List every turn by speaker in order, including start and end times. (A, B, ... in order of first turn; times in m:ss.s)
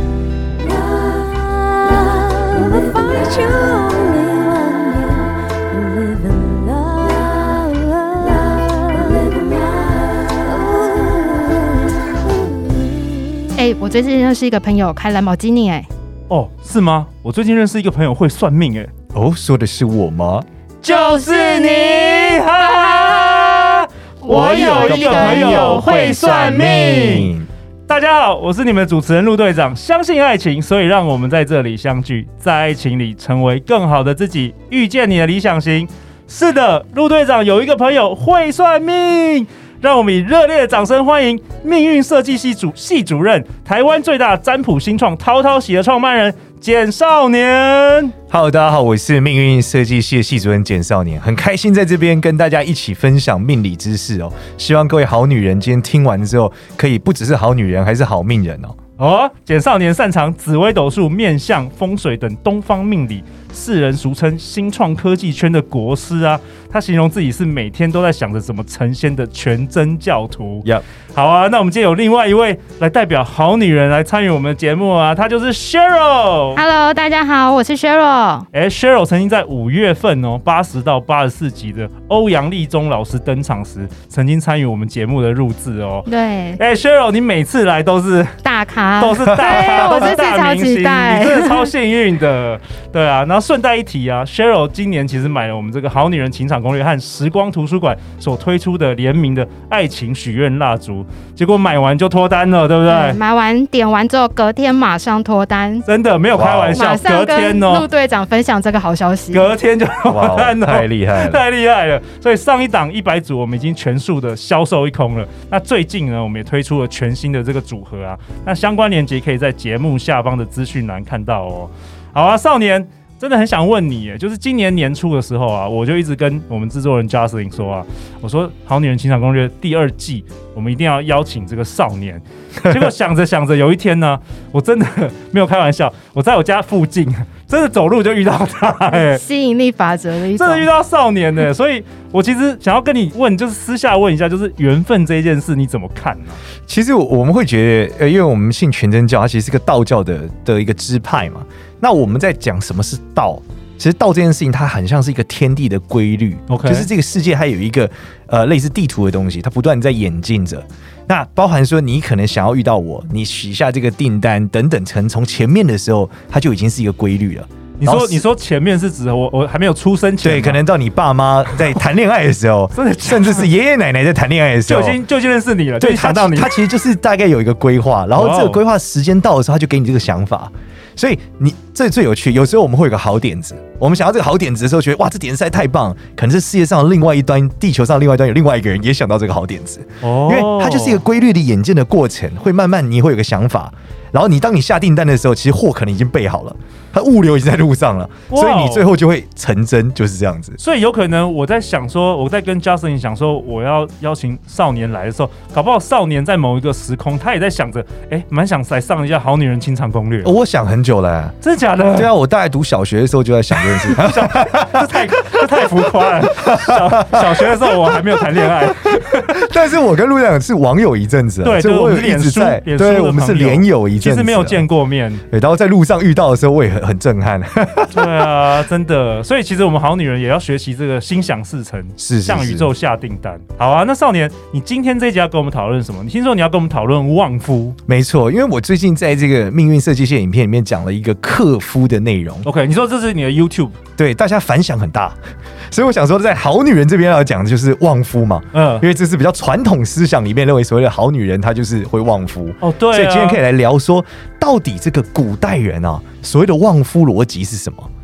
0:01.0-0:11.8 A
0:12.5-0:13.5 A
0:13.5-0:15.9 B
0:16.3-0:18.9 C
0:19.1-0:20.4 D
0:20.8-0:27.3 C
0:20.9-0:23.4 B
0:24.2-0:27.3 B
0:24.5-0:27.5 D
0:27.9-0:48.1 C
0:48.3-0:58.7 D
0:59.0-1:16.6 C
1:16.5-1:18.5 B
1:18.5-1:28.4 C
1:26.1-1:26.6 B
1:28.4-1:31.7 B
1:29.0-1:43.2 C
1:29.4-1:30.0 D
1:42.8-1:45.8 B
1:45.8-1:47.8 C
1:46.3-1:46.8 D
1:46.7-1:49.5 B
1:49.3-2:19.2 C
1:50.1-1:51.4 D
2:18.9-2:20.7 B
2:20.4-2:26.4 C
2:26.6-2:48.2 D
2:36.5-2:36.9 C
2:47.8-2:50.6 C
2:50.2-2:55.0 D
2:51.5-2:51.8 C
2:52.7-2:53.5 C
2:54.6-2:56.5 C
2:55.8-3:20.6 D
2:58.1-2:58.6 C
3:10.0-3:11.0 C
3:18.3-3:18.9 C
3:20.6-3:30.3 C
3:30.2-3:31.4 D
3:31.4-3:32.1 C
3:31.9-3:35.5 D
3:33.6-3:39.4 C
3:36.0-3:37.8 D
3:38.4-3:44.7 D
3:41.4-3:45.2 C
3:45.3-3:48.2 D
3:47.9-3:57.8 C
3:52.0-3:52.7 D
3:57.9-4:02.5 D
4:02.4-4:03.8 C
4:04.0-4:05.2 D
4:05.7-4:17.9 D
4:08.5-4:08.8 C
4:12.6-4:13.4 C